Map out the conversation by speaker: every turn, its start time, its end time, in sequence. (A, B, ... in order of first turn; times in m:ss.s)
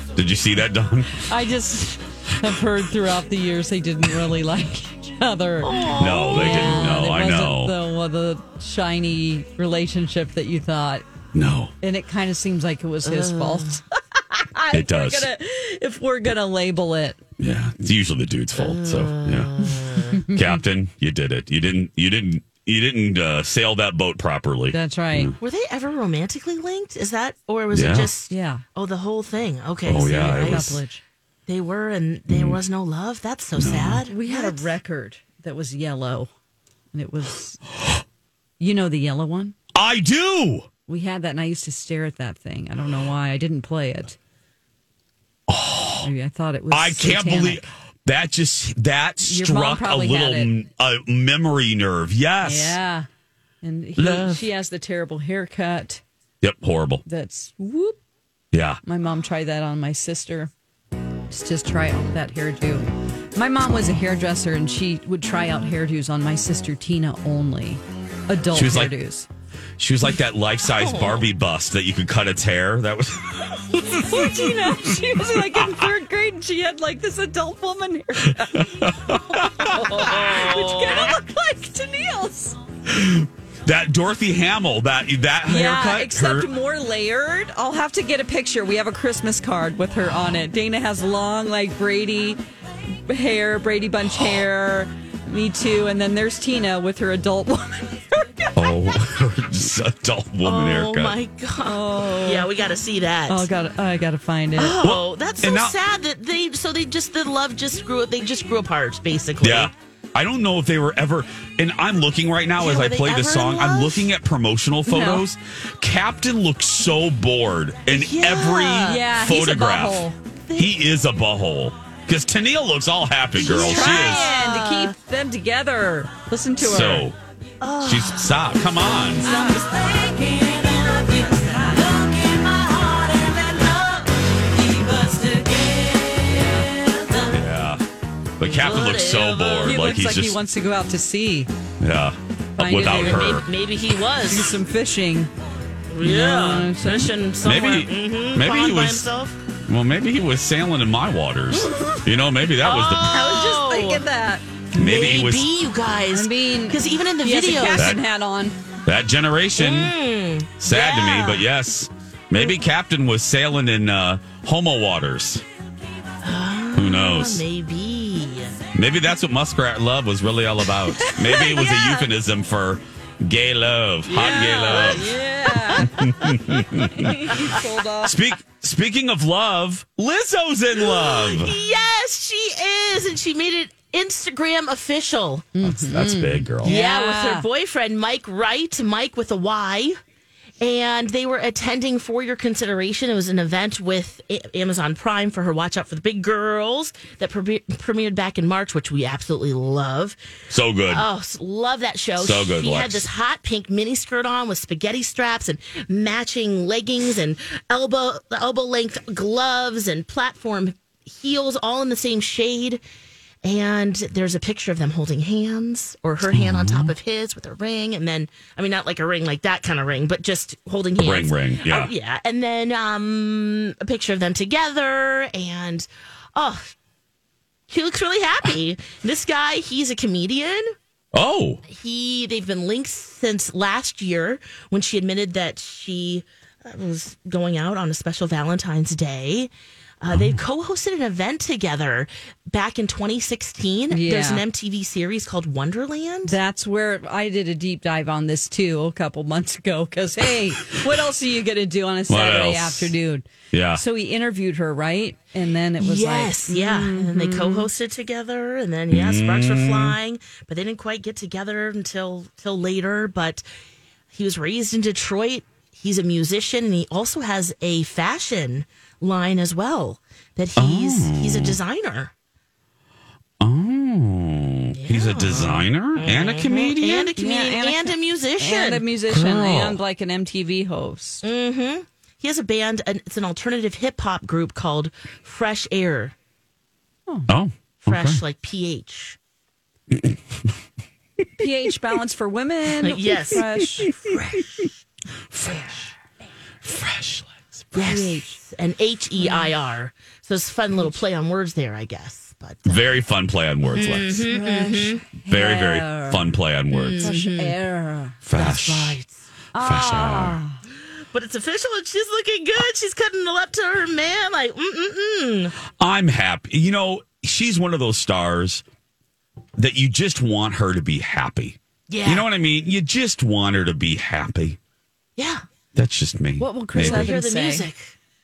0:00.2-0:01.2 A
0:01.2-0:11.0 B
0:05.6-0:07.0 C
0:06.0-0:07.7 A
0:11.3-0:11.7 A
0:11.8-0:17.2 B
0:13.0-0:13.8 C
0:14.7-0:15.3 A
0:17.4-0:19.7 A
0:18.6-0:20.2 C
0:20.3-0:25.4 A
0:24.7-0:25.3 B
0:25.4-0:30.8 C
0:27.7-0:28.1 A
0:28.3-0:28.6 B
0:29.8-0:30.8 A
0:30.1-0:31.0 B
0:31.5-0:34.7 C
0:32.3-0:32.6 A
0:33.6-0:34.0 A
0:34.1-0:36.3 B
0:36.9-0:37.6 B
0:38.6-0:39.5 B
0:39.7-0:40.7 A
0:40.9-0:44.2 B
0:45.5-0:46.1 A
0:46.0-0:47.6 B
0:46.7-0:52.8 A
0:49.2-0:50.5 B
0:52.4-0:53.1 B
0:53.6-0:56.0 B
0:54.0-0:54.4 A
0:56.4-0:57.0 A
0:57.0-0:58.0 B
0:58.5-0:58.8 A
0:58.8-1:00.5 B
1:01.3-1:09.3 B
1:08.5-1:09.0 A
1:09.8-1:15.5 A
1:10.6-1:11.2 C
1:13.8-1:18.8 B
1:18.6-1:19.8 A
1:19.6-1:22.6 B
1:19.6-1:21.2 C
1:22.9-1:26.5 A
1:25.4-1:32.4 B
1:33.1-1:38.5 B
1:38.6-1:41.1 A
1:40.4-1:43.5 C
1:41.6-1:42.5 B
1:43.3-1:44.8 B
1:44.6-1:49.7 C
1:44.8-1:45.7 A
1:49.4-2:04.3 A
1:52.6-1:54.1 C
1:54.9-1:55.2 B
1:57.9-1:59.0 C
1:58.8-2:00.2 B
2:00.5-2:00.7 C
2:03.4-2:04.9 C
2:03.4-2:07.1 B
2:06.6-2:07.2 A
2:07.6-2:08.3 C
2:07.8-2:09.3 A
2:09.2-2:10.0 B
2:09.2-2:17.4 C
2:11.3-2:11.8 B
2:17.3-2:17.8 A
2:18.4-2:20.4 A
2:18.4-2:19.8 C
2:19.6-2:21.5 B
2:21.8-2:23.4 A
2:22.6-2:23.4 B
2:22.9-2:24.5 C
2:24.2-2:25.3 B
2:25.9-2:29.4 C
2:26.0-2:27.1 B
2:27.4-2:29.0 A
2:29.7-2:33.1 A
2:31.6-2:32.0 B
2:32.6-2:34.1 C
2:33.1-2:34.4 B
2:34.7-2:38.0 C
2:34.8-2:35.4 A
2:36.1-2:38.6 B
2:38.8-2:39.9 A
2:39.6-2:41.4 C
2:40.6-2:45.4 A
2:46.2-2:48.6 C
2:46.8-2:47.4 A
2:48.7-2:55.1 A
2:51.1-2:51.5 B
2:51.5-2:52.1 C
2:54.1-2:55.9 B
2:54.1-2:55.9 C
2:55.8-2:57.5 A
2:56.9-2:58.1 B
2:58.0-3:01.5 A
3:00.8-3:05.5 C
3:05.6-3:07.5 B
3:05.6-3:06.7 A
3:06.6-3:10.0 C
3:10.6-3:20.2 C
3:20.5-3:21.0 A
3:20.9-3:32.8 C
3:22.2-3:23.0 A
3:33.4-3:46.7 C
3:36.3-3:36.9 A
3:41.0-3:41.9 A
3:47.7-3:50.7 C
3:51.1-3:51.6 A
3:51.7-4:06.4 C
4:00.1-4:00.4 A
4:03.9-4:04.4 B
4:06.2-4:17.7 B
4:12.1-4:12.9 A
4:13.5-4:13.8 A
4:15.8-4:23.4 C
4:18.9-4:20.0 A
4:24.1-4:32.1 C
4:30.6-4:31.6 A
4:33.4-4:37.1 A
4:34.7-4:38.8 C
4:37.2-4:41.2 B
4:39.1-4:39.8 A
4:41.2-4:46.1 C
4:47.3-4:48.2 A
4:47.8-4:49.2 C
4:51.4-4:53.9 B
4:52.7-4:53.4 C
4:54.1-4:54.7 C
4:55.3-4:55.8 A
4:56.6-4:57.6 A
4:57.7-4:58.4 B
4:57.7-5:03.0 C
4:59.2-4:59.5 B
5:02.6-5:04.2 A
5:03.7-5:05.0 C
5:04.2-5:06.3 B
5:05.3-5:07.1 A
5:06.7-5:07.6 C
5:07.0-5:08.2 B
5:08.2-5:09.0 A
5:08.3-5:09.2 C
5:09.5-5:10.6 B
5:09.6-5:10.4 A
5:11.1-5:15.5 C
5:15.8-5:18.6 A
5:19.6-5:24.6 A
5:21.9-5:22.2 C
5:25.2-5:25.4 C
5:25.8-5:27.1 A
5:26.4-5:27.7 B
5:26.8-5:27.9 C